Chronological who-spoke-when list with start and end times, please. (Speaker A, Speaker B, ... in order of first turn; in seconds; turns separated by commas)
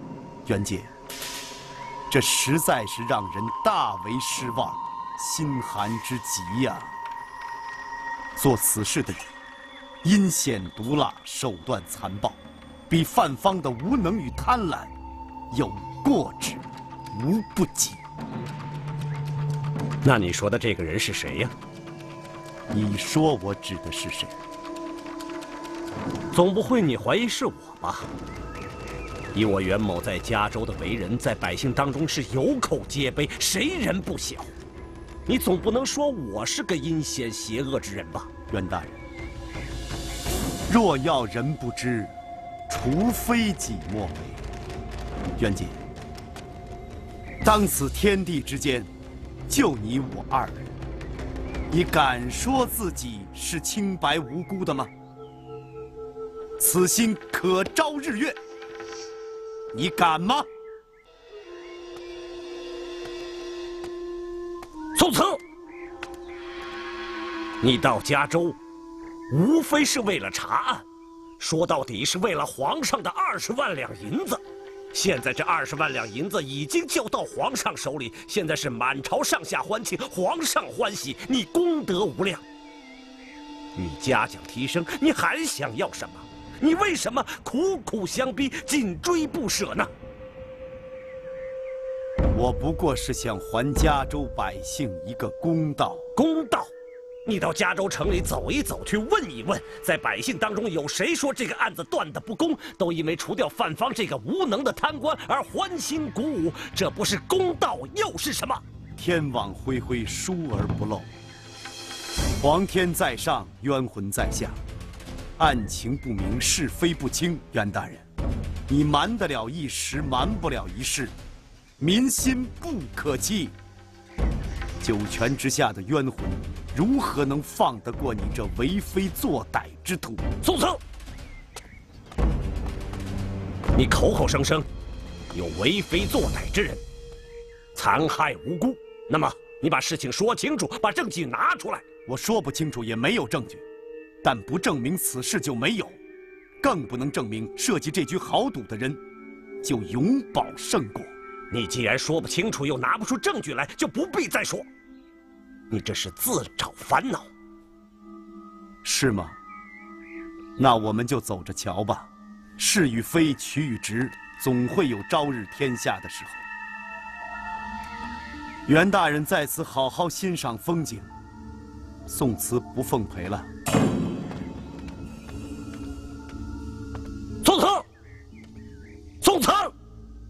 Speaker A: 0.5-0.9, Speaker A: 2.1-6.9, Speaker A: 8.3-9.2, Speaker A: 10.0-14.9, Speaker A: 15.5-18.0, Speaker B: 20.0-21.5, Speaker A: 22.7-24.3, Speaker B: 26.3-28.1, Speaker B: 29.3-34.5, Speaker B: 35.2-38.3, Speaker A: 38.5-39.0, Speaker A: 40.7-42.1, Speaker A: 42.7-44.4, Speaker A: 45.4-45.8, Speaker A: 47.4-48.9, Speaker A: 49.5-50.7, Speaker A: 51.7-54.9, Speaker A: 56.6-58.4, Speaker A: 59.7-60.5, Speaker B: 64.9-65.4, Speaker B: 67.6-68.6, Speaker B: 69.3-70.8, Speaker B: 71.4-74.4, Speaker B: 74.9-82.4, Speaker B: 83.8-89.9, Speaker A: 92.3-96.0, Speaker B: 96.2-96.7, Speaker B: 97.2-108.6, Speaker A: 109.0-111.1, Speaker A: 112.4-114.6, Speaker A: 115.4-118.0, Speaker A: 118.7-121.1, Speaker A: 121.8-123.5, Speaker A: 124.8-130.2, Speaker B: 130.4-130.8, Speaker B: 133.7-134.7, Speaker B: 135.3-136.8, Speaker B: 137.7-141.8, Speaker A: 142.1-143.6, Speaker A: 144.2-146.0, Speaker A: 146.6-149.0, Speaker A: 149.6-151.1, Speaker B: 151.5-154.7, Speaker B: 155.7-157.3, Speaker A: 158.8-159.4, Speaker A: 160.6-166.4, Speaker A: 168.7-171.1, Speaker A: 172.1-173.5, Speaker B: 177.4-177.8, Speaker B: 179.2-179.7